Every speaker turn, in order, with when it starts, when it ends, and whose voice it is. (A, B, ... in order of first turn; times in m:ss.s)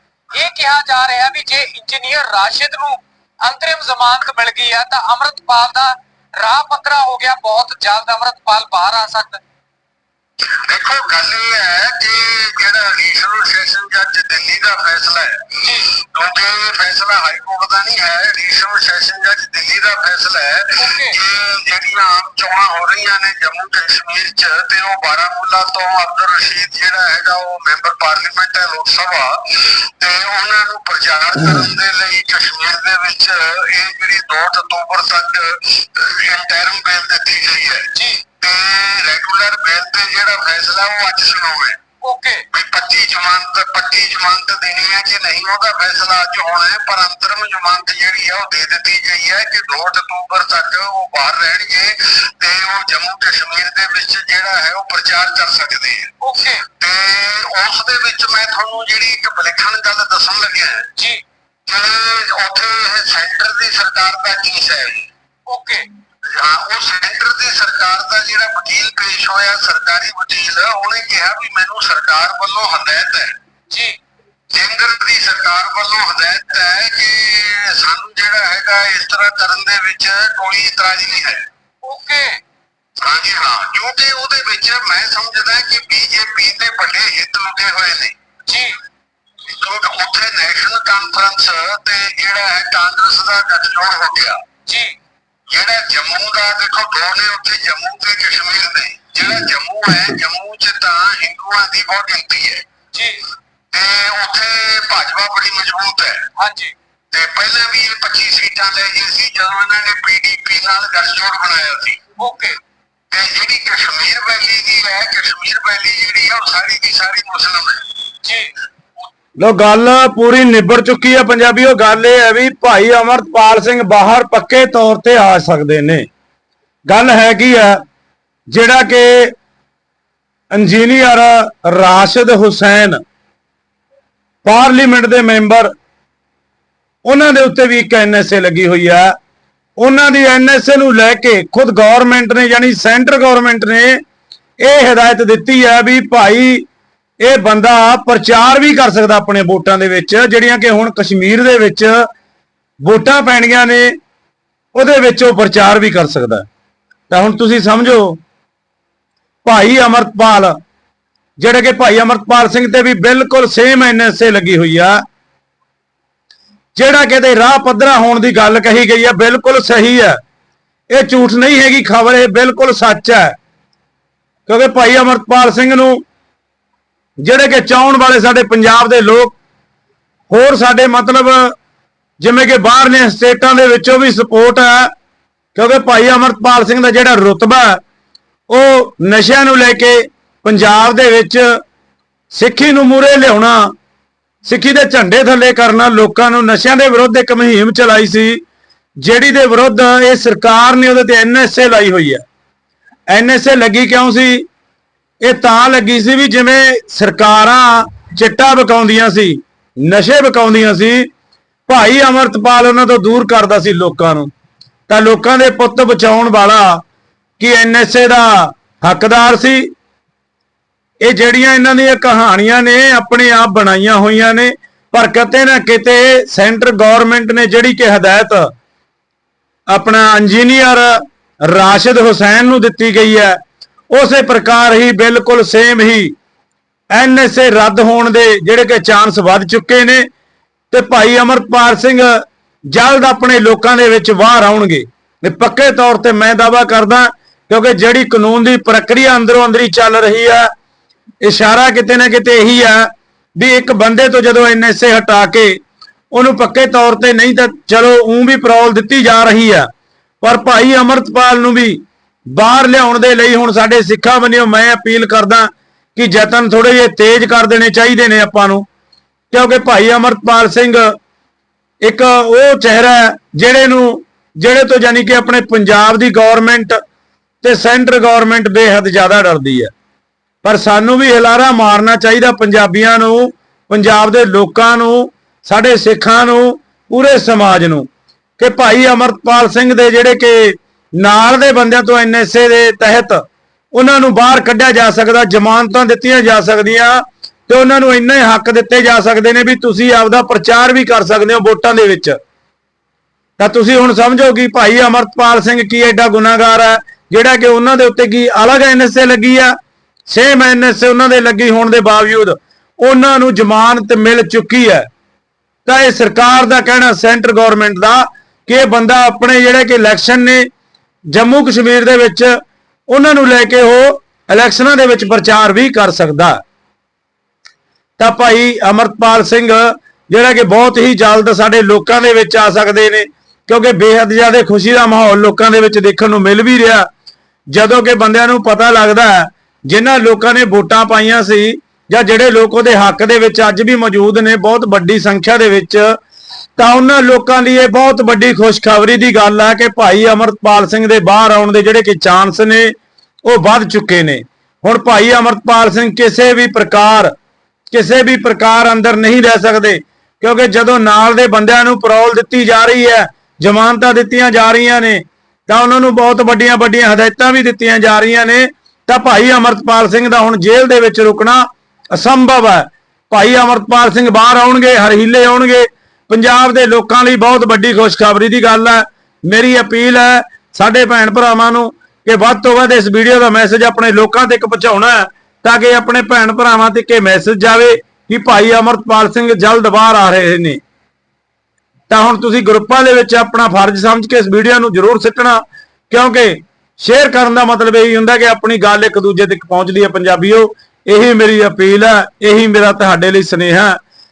0:00.3-0:09.4 A
0:10.7-0:41.8 B
0:15.6-0:15.9 A
0:20.8-0:21.2 A
0:37.9-0:38.2 A
0:42.0-0:42.4 A
0:42.5-0:56.1 B
0:56.2-0:56.7 A
0:56.8-1:00.9 B
1:01.0-1:01.2 A
1:01.7-1:05.1 B
1:05.5-1:05.8 A
1:06.2-1:13.4 B
1:13.7-1:14.0 A
1:14.5-1:21.5 B
1:21.8-1:22.4 A
1:23.0-1:28.2 B
1:28.5-1:28.8 A
1:29.4-1:34.4 B
1:34.7-1:35.0 A
1:35.5-1:42.6 B
1:42.9-1:43.2 A
1:43.7-1:46.3 B
1:46.4-1:46.7 A
1:47.1-1:52.0 B
1:52.2-1:52.6 A
1:53.1-1:57.9 B
1:58.2-1:58.5 A
1:59.4-2:06.1 C
2:06.9-2:07.8 C
2:08.5-2:09.3 C
2:10.5-2:13.0 C
2:14.4-2:15.7 C
2:17.1-2:19.1 C
2:19.8-2:24.0 C
2:24.6-2:26.6 C
2:27.2-2:32.0 C
2:32.8-2:33.9 C
2:34.8-2:36.4 C
2:37.1-2:38.2 C
2:39.4-2:40.6 C
2:41.4-2:45.0 C
2:46.8-2:50.2 C
2:50.9-2:53.3 C
2:54.5-2:56.0 C
2:57.2-2:59.4 C
3:00.3-3:01.5 C
3:02.2-3:04.9 C
3:05.6-3:07.8 C
3:08.5-3:11.4 C
3:12.3-3:13.7 C
3:14.4-3:18.4 C
3:19.0-3:22.2 C
3:23.1-3:24.4 C
3:25.2-3:31.1 C
3:31.7-3:34.3 C
3:34.9-3:36.8 C
3:37.4-3:39.7 C
3:41.0-3:48.5 C
3:49.7-3:53.4 C
3:53.9-3:56.1 C
3:56.9-4:00.1 C
4:00.7-4:02.2 C
4:02.7-4:10.5 C
4:11.2-4:15.6 C
4:16.1-4:19.7 C
4:20.2-4:21.8 C
4:22.3-4:28.6 C
4:29.3-4:30.9 C
4:31.8-4:36.8 C
4:37.4-4:39.7 C
4:40.4-4:47.9 C
4:48.4-4:53.2 C
4:53.7-5:02.2 C
5:03.4-5:09.5 C
5:10.1-5:14.9 C
5:15.6-5:20.5 C
5:21.1-5:22.3 C
5:22.9-5:26.4 C
5:28.0-5:36.9 C
5:37.5-5:45.8 C
5:46.6-5:52.7 C
5:53.2-5:57.1 C
5:57.7-6:30.6 C
6:31.9-6:43.8 C